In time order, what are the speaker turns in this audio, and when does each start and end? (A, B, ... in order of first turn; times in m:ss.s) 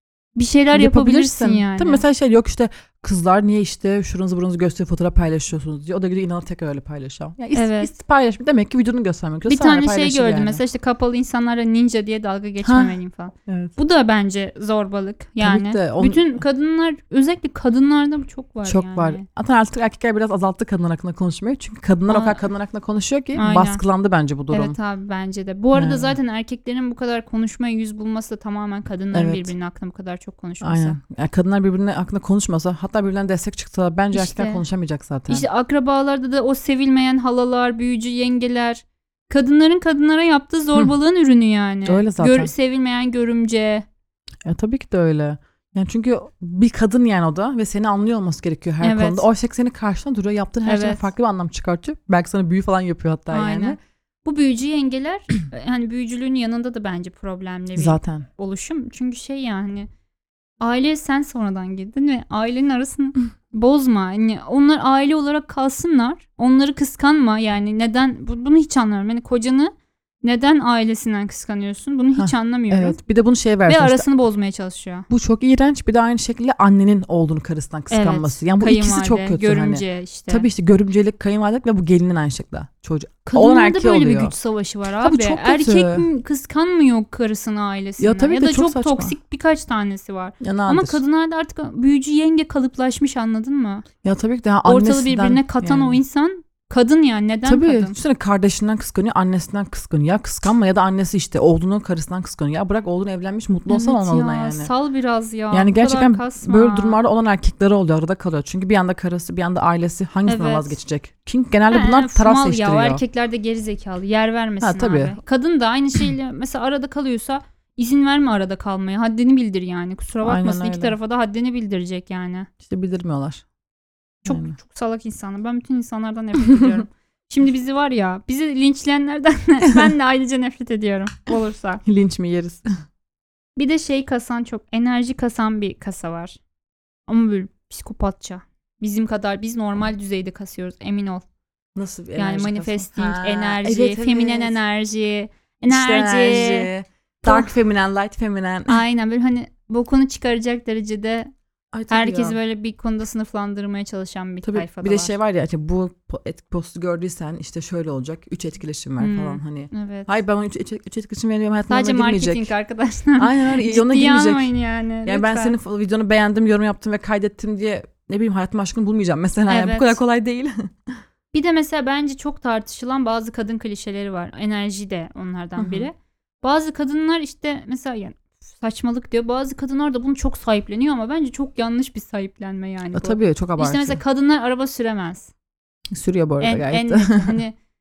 0:00.4-0:02.0 A
0:00.7-0:10.6 B
0:07.5-0:07.9 A
0:09.5-0:19.2 A
0:12.6-0:12.9 B
0:13.5-0:13.7 B
0:15.4-0:16.4 B
0:18.6-0:24.8 B
0:22.1-0:22.4 A
0:23.3-0:23.8 A
0:24.5-0:31.0 A
0:25.7-0:26.2 B
0:29.1-0:29.5 B
0:30.6-0:35.4 B
0:34.1-0:34.6 A
0:35.3-0:43.8 A
0:41.8-0:42.5 B
0:44.4-0:53.8 B
0:48.8-0:49.2 A
0:50.6-0:51.1 A
0:53.3-0:59.9 A
0:57.8-0:58.2 B
1:00.6-1:09.7 A
1:10.2-1:13.0 A
1:12.2-1:14.0 B
1:13.6-1:15.1 A
1:15.1-1:24.3 B
1:17.9-1:20.5 A
1:23.3-1:33.8 A
1:25.0-1:26.0 B
1:28.0-1:29.1 B
1:30.4-1:31.0 B
1:34.0-1:36.0 B
1:34.6-1:38.0 A
1:37.4-1:44.7 B
1:43.7-1:47.0 A
1:45.5-1:53.0 B
1:50.3-1:50.8 A
1:51.7-2:02.5 A
1:54.6-1:55.2 B
2:00.2-2:01.0 B
2:02.6-2:03.4 B
2:04.2-2:11.8 A
2:04.2-2:04.6 B
2:06.4-2:06.8 B
2:11.8-2:12.6 B
2:13.6-2:16.4 A
2:17.1-2:21.2 A
2:21.7-2:24.6 B
2:22.2-2:26.7 A
2:25.7-2:28.8 B
2:27.2-2:27.5 A
2:28.7-2:31.3 A
2:31.7-2:32.4 B
2:31.9-2:35.1 A
2:34.4-2:42.5 B
2:39.0-2:40.1 A
2:41.7-2:45.5 A
2:43.2-2:44.5 B
2:45.0-2:50.9 B
2:49.5-2:50.0 A
2:51.3-3:05.3 A
2:55.6-2:55.9 B
3:02.9-3:04.0 B
3:05.9-3:07.4 B
3:06.4-3:07.6 A